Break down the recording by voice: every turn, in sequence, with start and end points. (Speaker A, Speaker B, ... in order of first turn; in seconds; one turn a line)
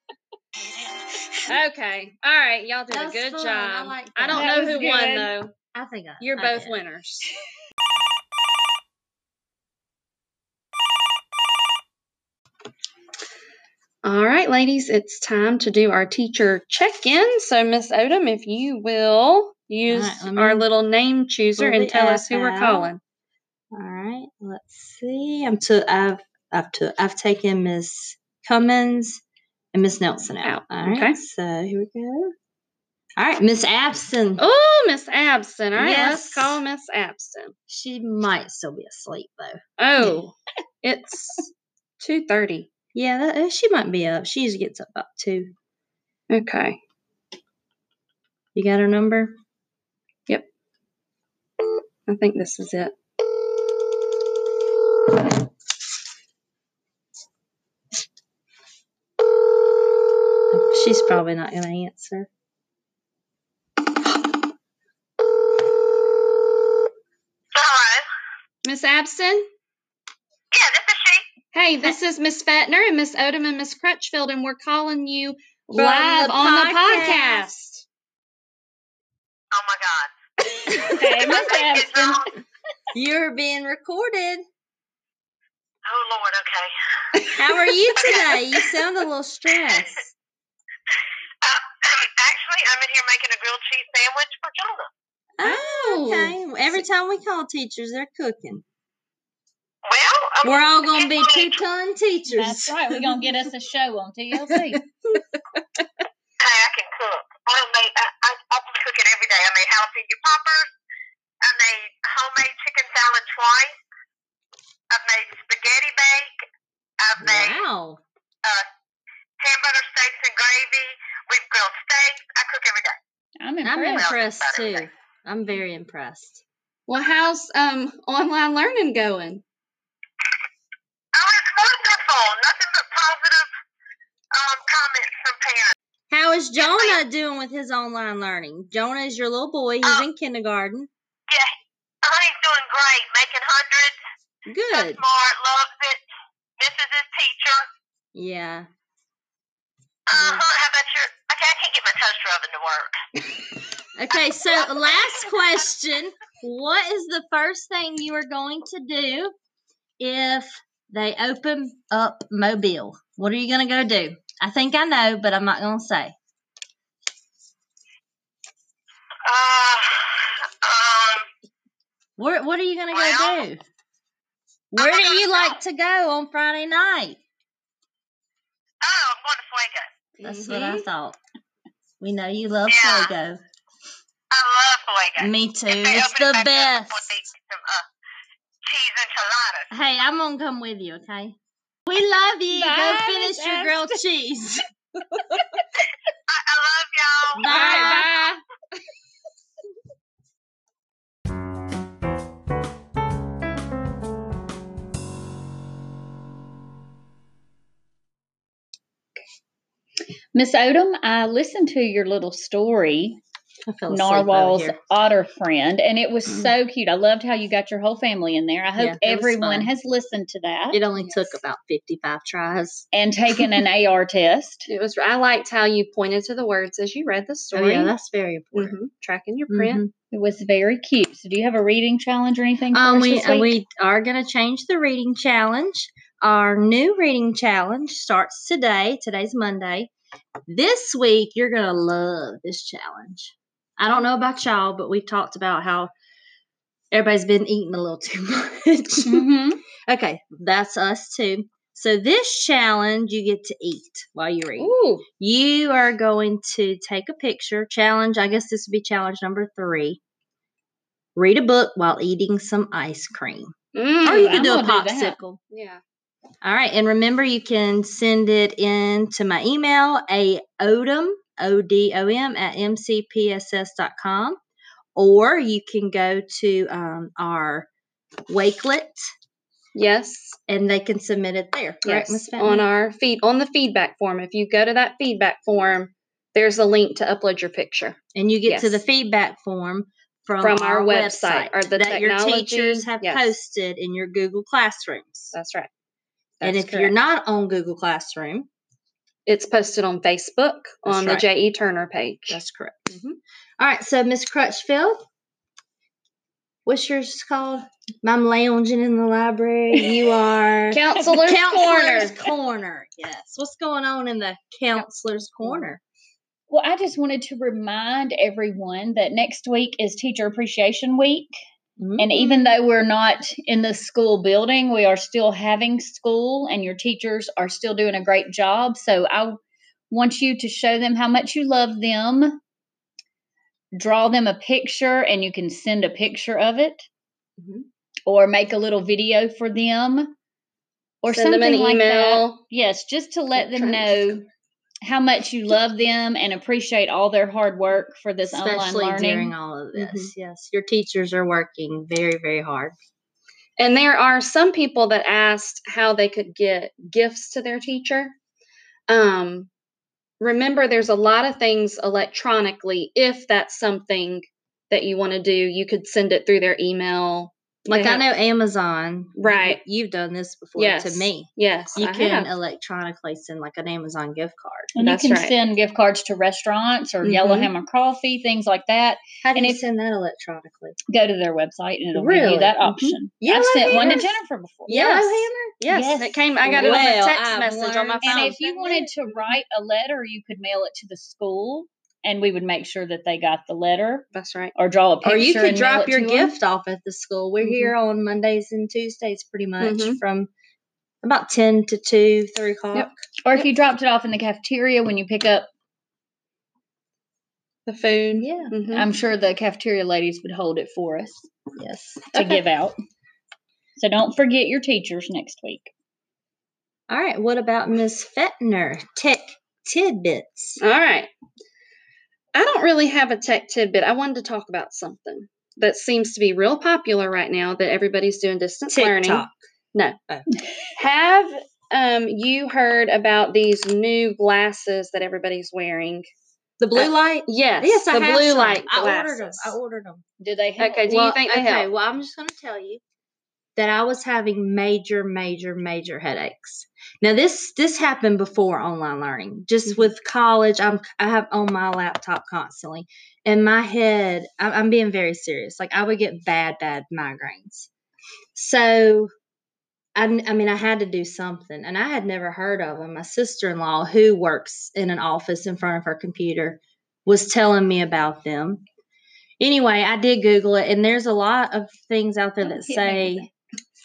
Speaker A: 1.4-5.5
Speaker B: 2.9-4.8
Speaker C: 4.3-5.3
Speaker B: 5.7-6.7
Speaker A: 6.2-7.3
Speaker A: 14.0-23.0
Speaker B: 19.9-20.6
Speaker B: 21.6-22.9
Speaker B: 23.7-29.2
Speaker B: 29.7-32.3
Speaker A: 30.4-31.2
Speaker B: 33.2-34.4
Speaker A: 34.4-37.5
Speaker B: 35.8-36.6
Speaker B: 37.7-40.2
Speaker A: 39.8-42.7
Speaker B: 42.9-45.5
Speaker A: 46.3-46.8
Speaker B: 48.5-49.4
Speaker A: 52.1-52.9
Speaker B: 60.5-62.3
Speaker D: 67.5-68.1
Speaker A: 68.6-69.5
Speaker D: 70.5-71.3
Speaker A: 71.5-77.8
Speaker B: 75.7-77.5
Speaker D: 79.5-82.2
Speaker C: 80.8-82.2
Speaker B: 82.9-84.4
Speaker D: 85.8-87.3
Speaker B: 87.3-90.1
Speaker D: 87.9-88.7
Speaker D: 91.4-94.9
Speaker B: 95.4-98.6
Speaker A: 95.4-96.4
Speaker D: 99.8-101.6
Speaker B: 100.4-103.3
Speaker C: 102.3-104.8
Speaker B: 104.5-105.2
Speaker D: 106.4-110.7
Speaker D: 111.4-113.8
Speaker D: 114.9-116.5
Speaker D: 117.0-117.6
Speaker B: 117.2-118.0
Speaker D: 119.4-123.0
Speaker C: 123.4-124.1
Speaker B: 123.6-126.4
Speaker D: 124.0-124.9
Speaker A: 126.9-129.4
Speaker D: 131.1-133.5
Speaker D: 134.3-135.7
Speaker B: 136.1-140.9
Speaker D: 136.6-137.0
Speaker D: 142.0-144.0
Speaker B: 144.5-145.0
Speaker D: 144.7-146.0
Speaker D: 146.6-147.7
Speaker B: 148.1-148.7
Speaker D: 150.1-152.9
Speaker B: 150.1-150.5
Speaker B: 153.9-159.3
Speaker D: 154.6-155.1
Speaker B: 160.0-166.1
Speaker D: 169.2-171.2
Speaker B: 172.2-173.6
Speaker D: 172.9-173.4
Speaker B: 174.7-177.2
Speaker D: 174.8-175.6
Speaker D: 178.8-179.9
Speaker A: 180.2-180.8
Speaker B: 180.2-181.2
Speaker B: 182.0-183.4
Speaker D: 182.7-183.1
Speaker D: 184.3-187.9
Speaker B: 185.2-187.1
Speaker D: 188.7-189.7
Speaker B: 189.7-194.6
Speaker C: 192.6-193.9
Speaker A: 192.6-193.3
Speaker D: 196.3-198.1
Speaker B: 197.3-198.1
Speaker A: 197.4-198.4
Speaker C: 210.3-213.2
Speaker B: 213.7-214.8
Speaker C: 213.9-220.8
Speaker B: 218.8-219.7
Speaker B: 220.7-222.8
Speaker A: 221.0-221.3
Speaker C: 222.9-224.7
Speaker A: 224.7-227.9
Speaker B: 227.5-228.8
Speaker A: 228.5-229.8
Speaker B: 229.5-229.9
Speaker C: 230.1-233.6
Speaker B: 232.7-239.9
Speaker B: 240.5-245.9
Speaker B: 246.9-249.3
Speaker C: 249.1-249.6
Speaker B: 249.8-260.0
Speaker A: 254.6-255.0
Speaker B: 261.1-265.4
Speaker A: 263.7-264.6
Speaker C: 264.0-265.1
Speaker A: 265.5-265.8
Speaker B: 266.4-274.4
Speaker B: 274.9-277.7
Speaker B: 278.3-279.1
Speaker A: 279.7-280.4
Speaker B: 280.5-282.7
Speaker A: 281.8-288.8
Speaker B: 288.1-295.3
Speaker A: 290.4-293.4
Speaker A: 295.3-295.7
Speaker A: 296.4-296.9
Speaker B: 296.4-298.5
Speaker A: 299.3-303.2
Speaker B: 300.8-301.2
Speaker B: 302.3-302.9
Speaker B: 303.6-305.0
Speaker B: 306.6-315.8
Speaker A: 310.7-312.2
Speaker C: 316.5-321.3
Speaker B: 321.8-322.1
Speaker C: 322.0-329.4
Speaker C: 329.9-332.4
Speaker C: 333.7-336.9
Speaker C: 338.1-340.1
Speaker C: 341.0-344.2
Speaker A: 341.1-342.4
Speaker A: 343.4-344.1
Speaker C: 344.8-349.3
Speaker B: 348.2-352.7
Speaker A: 349.7-350.1
Speaker A: 353.6-358.1
Speaker A: 358.9-359.5
Speaker A: 360.2-368.1
Speaker B: 367.7-374.7
Speaker A: 369.2-369.6
Speaker A: 370.6-372.3
Speaker C: 374.8-379.6
Speaker A: 374.8-375.3
Speaker A: 377.0-377.5
Speaker B: 379.2-380.8
Speaker C: 380.9-386.9
Speaker B: 381.9-382.6
Speaker A: 382.7-383.0
Speaker B: 383.2-384.1
Speaker A: 383.7-384.1
Speaker B: 384.7-385.6
Speaker A: 385.6-388.3
Speaker B: 386.4-389.4
Speaker C: 388.0-396.3
Speaker A: 394.1-394.5
Speaker B: 395.0-400.3
Speaker A: 397.4-397.7
Speaker A: 399.6-400.0
Speaker B: 401.0-402.9
Speaker A: 402.7-403.4
Speaker C: 403.2-405.5
Speaker A: 407.6-408.9
Speaker B: 408.2-408.5
Speaker C: 408.7-411.2
Speaker B: 411.6-412.1
Speaker A: 412.1-412.4
Speaker C: 412.1-412.7
Speaker C: 413.8-415.7
Speaker B: 416.9-420.6
Speaker A: 420.6-421.1
Speaker A: 422.3-430.0
Speaker B: 428.7-429.3
Speaker A: 430.8-436.1
Speaker B: 436.6-440.0
Speaker A: 436.8-439.6
Speaker C: 440.2-440.9
Speaker A: 440.6-441.7
Speaker B: 440.9-442.8
Speaker B: 443.6-457.7
Speaker B: 458.3-459.1
Speaker B: 459.9-468.6
Speaker B: 469.4-473.3
Speaker C: 472.4-473.3